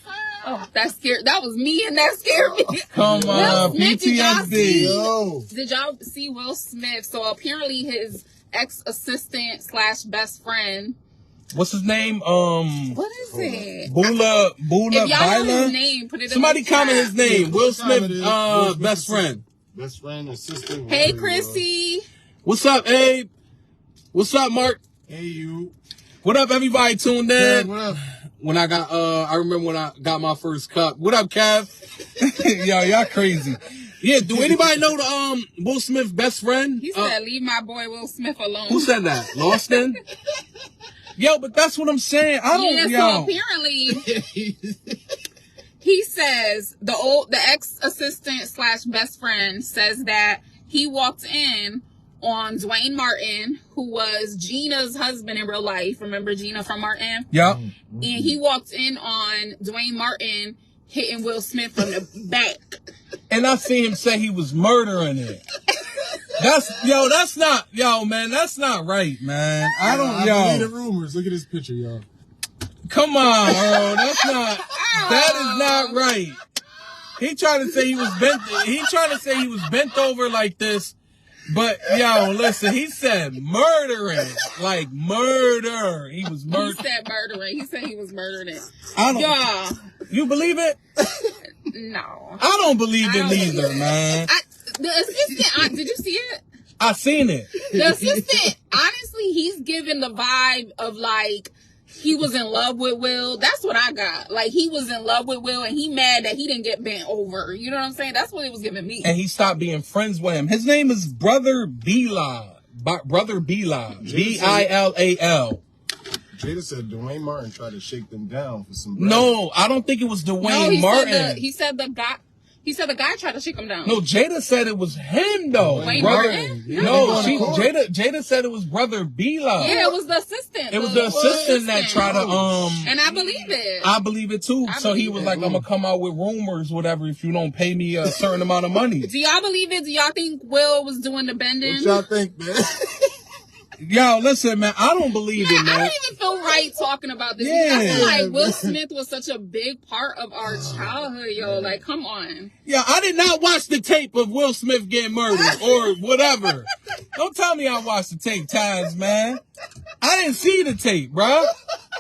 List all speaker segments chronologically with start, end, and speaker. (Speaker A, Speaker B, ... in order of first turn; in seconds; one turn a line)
Speaker A: 0.4-11.0
Speaker B: 2.7-3.8
Speaker C: 2.9-5.0
Speaker B: 4.5-5.5
Speaker C: 11.5-13.0
Speaker A: 12.9-14.1
Speaker B: 13.3-13.7
Speaker C: 13.9-15.7
Speaker A: 14.9-17.2
Speaker C: 16.3-19.4
Speaker B: 17.2-21.6
Speaker A: 20.9-22.1
Speaker C: 22.4-23.3
Speaker C: 24.1-24.8
Speaker B: 25.1-25.7
Speaker C: 26.2-37.1
Speaker B: 27.4-28.0
Speaker B: 34.3-34.9
Speaker A: 36.8-38.9
Speaker C: 38.7-40.0
Speaker C: 41.2-43.4
Speaker A: 42.5-44.0
Speaker B: 43.9-44.9
Speaker A: 45.8-57.3
Speaker C: 57.3-57.6
Speaker B: 57.4-58.4
Speaker A: 58.0-62.7
Speaker C: 63.3-65.4
Speaker C: 66.4-70.7
Speaker B: 69.8-72.1
Speaker C: 72.9-76.4
Speaker A: 73.5-74.1
Speaker A: 74.7-76.0
Speaker C: 77.2-81.0
Speaker C: 81.5-86.8
Speaker A: 86.5-89.8
Speaker C: 89.0-89.4
Speaker C: 90.1-90.8
Speaker A: 91.6-92.4
Speaker C: 92.4-94.3
Speaker A: 93.0-96.4
Speaker C: 96.8-97.5
Speaker A: 97.7-109.1
Speaker B: 97.7-98.5
Speaker C: 109.0-115.6
Speaker B: 114.0-114.7
Speaker B: 116.3-119.3
Speaker C: 119.0-121.4
Speaker A: 120.4-124.0
Speaker C: 123.8-129.8
Speaker B: 125.5-127.7
Speaker A: 125.8-127.7
Speaker A: 129.6-132.2
Speaker C: 130.7-132.9
Speaker B: 131.1-133.5
Speaker A: 132.8-133.9
Speaker C: 133.8-139.1
Speaker A: 134.7-135.4
Speaker B: 135.2-135.7
Speaker A: 139.1-142.1
Speaker B: 141.6-143.1
Speaker C: 143.8-146.0
Speaker A: 145.3-152.5
Speaker C: 147.4-148.2
Speaker B: 147.8-148.8
Speaker B: 150.5-151.8
Speaker C: 152.7-159.4
Speaker C: 160.0-161.5